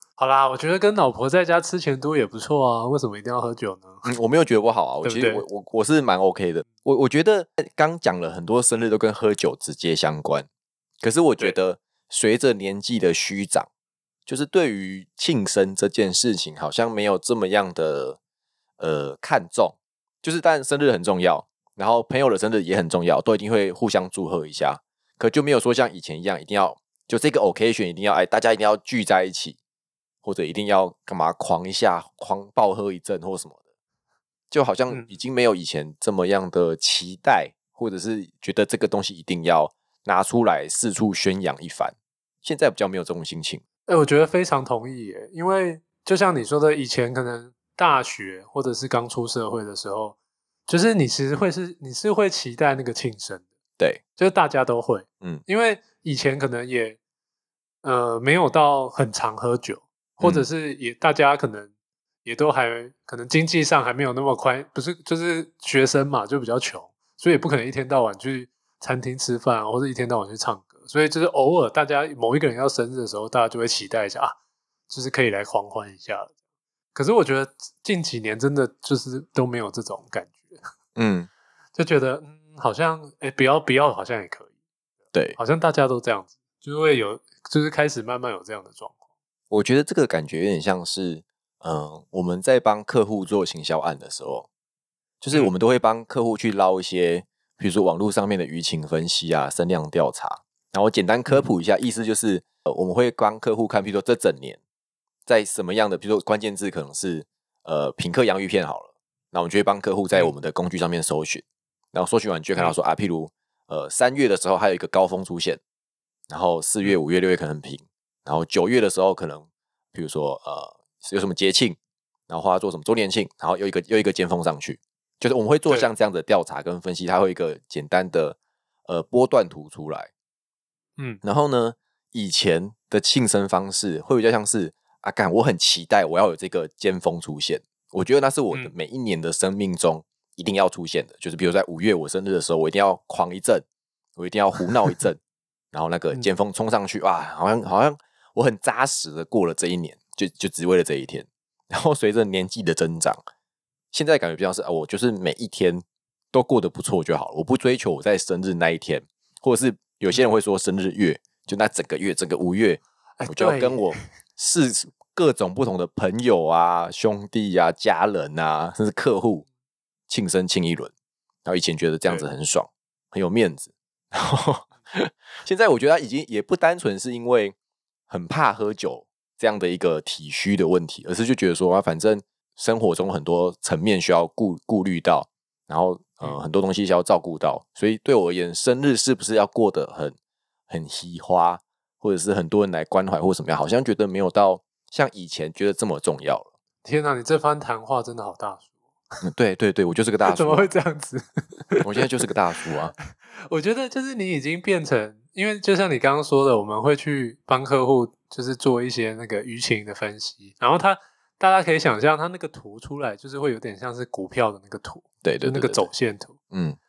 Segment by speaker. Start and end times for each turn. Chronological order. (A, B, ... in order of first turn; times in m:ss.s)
0:00.2-0:04.0 A
0:04.0-0:10.5 B
0:05.0-0:05.4 A
0:11.0-0:13.7 B
0:14.3-0:18.2 B
0:18.8-0:29.6 B
0:30.2-0:33.6 B
0:34.5-0:43.6 B
0:43.9-0:50.2 A
0:50.7-0:53.5 A
0:54.2-0:57.0 A
0:57.8-1:01.7 A
1:00.2-1:00.5 B
1:02.2-1:14.4 A
1:14.9-1:16.3 A
1:16.9-1:20.6 A
1:21.0-1:21.3 B
1:21.8-1:24.5 A
1:25.4-1:29.0 A
1:29.5-1:34.5 B
1:35.2-1:44.6 B
1:45.3-1:55.6 B
1:56.3-2:01.8 B
2:02.3-2:10.1 B
2:11.2-2:23.6 B
2:24.2-2:25.2 B
2:25.7-2:33.2 B
2:33.9-2:49.5 B
2:43.2-2:44.0 A
2:50.1-2:50.9 B
2:51.4-2:57.6 B
2:58.1-3:10.2 B
3:10.7-3:16.5 B
3:16.8-3:18.7 A
3:19.2-3:20.7 B
3:20.3-3:21.9 A
3:21.8-3:22.9 B
3:23.5-3:36.4 A
3:35.2-3:35.9 B
3:36.5-3:36.8 B